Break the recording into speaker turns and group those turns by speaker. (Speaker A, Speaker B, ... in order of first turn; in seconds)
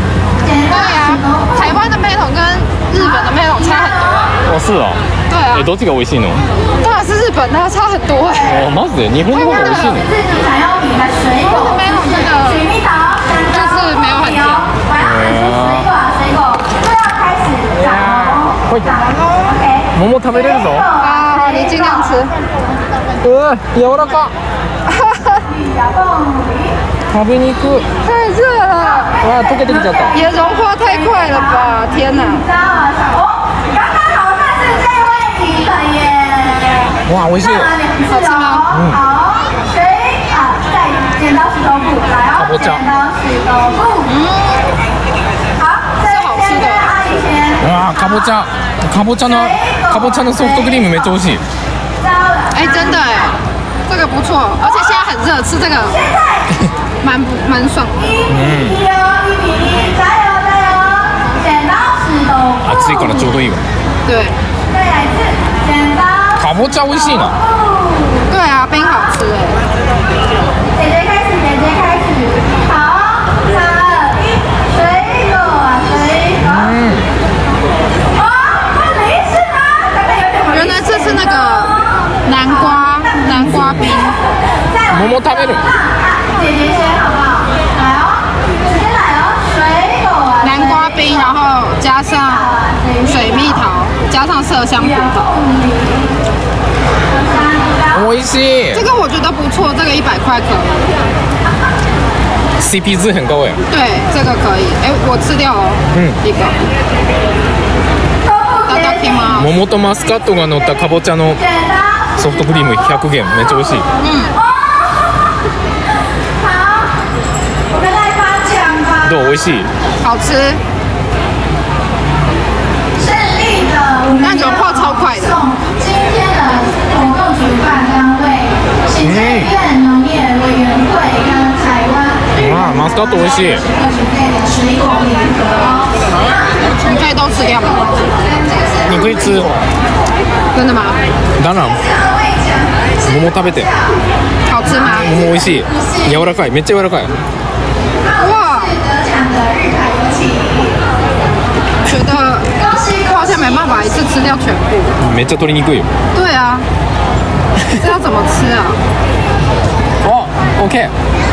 Speaker A: 0.4-1.8, 3.0-4.3, 8.4-8.7, 9.3-22.3, 25.4-26.8, 29.0-44.1, 45.5-48.2, 49.2-51.1, 52.0-53.3, 55.9-56.6, 58.0-63.4, 64.7-68.3, 70.7-76.7, 78.1-81.3, 82.4-84.1, 84.6-91.3, 92.2-93.6, 94.7-96.1, 97.1-98.1, 108.2-109.5, 111.4-112.4, 114.0-115.1, 116.4-117.0, 117.7-119.3, 123.0-139.5, 141.5-144.0, 144.7-146.4, 148.0-150.8, 152.6-154.2
Speaker B: 0.7-4.4, 5.3-5.7, 6.8-8.6, 11.5-12.7, 13.5-14.7, 21.0-22.4, 24.9-25.4, 28.0-29.2, 30.1-32.5, 38.0-38.7, 44.0-44.7, 46.0-46.9, 52.5-56.0, 57.0-58.1, 64.0-64.4, 68.3-69.6, 80.5-84.1, 90.4-95.3, 98.7-100.9, 103.7-106.5, 108.7-109.5, 114.0-114.3, 120.0-120.6, 124.2-125.4, 136.8-137.8, 140.5-141.0, 144.5-145.1, 148.2-148.7, 151.8-152.5, 153.0-154.9, 156.1-156.7, 157.8-158.8
Speaker C: 4.5-5.0, 5.5-6.4, 8.4-10.1, 15.0-15.9, 17.7-18.9, 19.9-20.9, 23.2-24.3, 27.1-27.9, 29.2-30.1, 37.0-37.7, 38.7-39.0, 42.4-42.9, 47.6-51.4, 58.3-58.8, 62.6-63.6, 66.4-67.4, 76.4-77.1, 83.5-83.9, 84.9-85.7, 97.9-98.8, 102.6-103.6, 105.9-106.2, 109.3-111.4, 112.2-113.9, 119.0-119.7, 129.0-129.5, 132.4-133.7, 138.8-139.7, 141.4-141.8, 143.0-143.7, 144.7-147.2, 155.0-155.9, 160.0-160.9